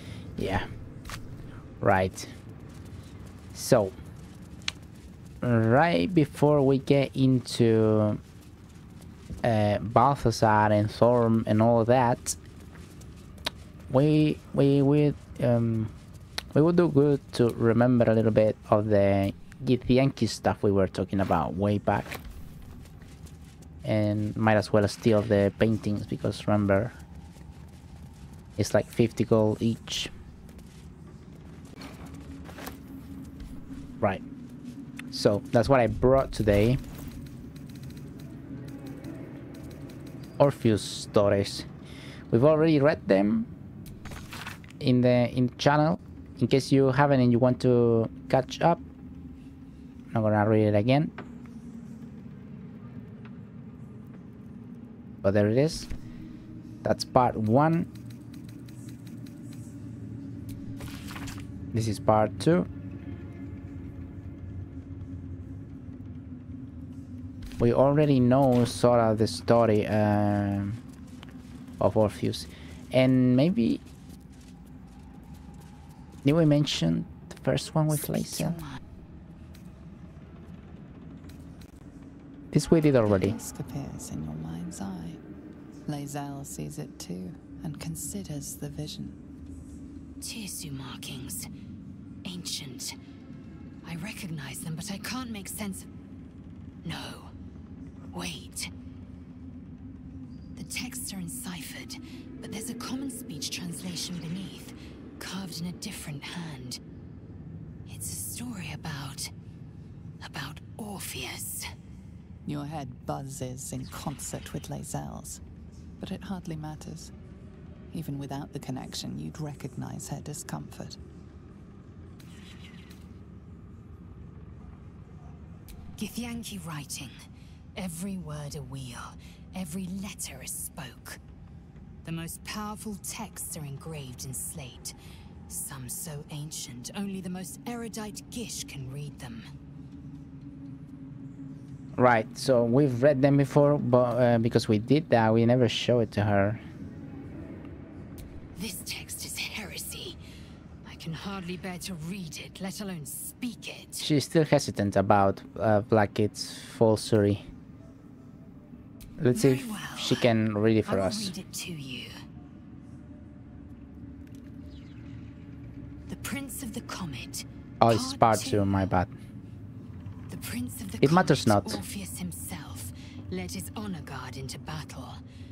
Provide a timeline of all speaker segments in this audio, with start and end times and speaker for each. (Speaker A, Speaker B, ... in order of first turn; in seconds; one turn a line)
Speaker A: 0.4-0.7
Speaker A: 1.8-2.3
Speaker A: 3.5-3.9
Speaker A: 5.4-8.2
Speaker A: 9.4-12.4
Speaker A: 13.9-15.9
Speaker A: 16.5-22.2
Speaker A: 23.8-27.0
Speaker A: 28.6-30.1
Speaker A: 35.1-36.8
Speaker A: 40.4-41.7
Speaker A: 42.3-43.5
Speaker A: 44.8-48.8
Speaker A: 50.1-51.1
Speaker A: 55.2-55.9
Speaker A: 56.8-57.9
Speaker A: 61.7-62.7
Speaker A: 67.6-70.8
Speaker A: 71.8-73.8
Speaker A: 76.2-78.6
Speaker B: 78.0-78.8
Speaker A: 82.5-83.4
Speaker C: 83.1-85.2
Speaker C: 85.9-89.2
Speaker B: 90.2-91.5
Speaker B: 92.2-93.0
Speaker B: 93.8-95.9
Speaker B: 96.8-97.3
Speaker B: 98.1-98.7
Speaker B: 100.6-106.8
Speaker B: 107.9-109.3
Speaker B: 110.2-111.7
Speaker C: 112.5-115.4
Speaker C: 116.0-117.1
Speaker C: 117.9-121.0
Speaker B: 126.0-127.1
Speaker B: 127.8-131.2
Speaker B: 132.0-134.9
Speaker B: 135.5-139.5
Speaker A: 141.9-146.6
Speaker B: 148.6-150.2
Speaker B: 150.8-154.1
Speaker A: 154.0-157.4
Speaker A: 159.2-161.3
Speaker B: 159.3-160.3
Speaker B: 160.8-162.1
Speaker B: 166.1-168.9
Speaker A: 167.8-169.1
Speaker B: 170.3-175.2
Speaker A: 171.0-171.8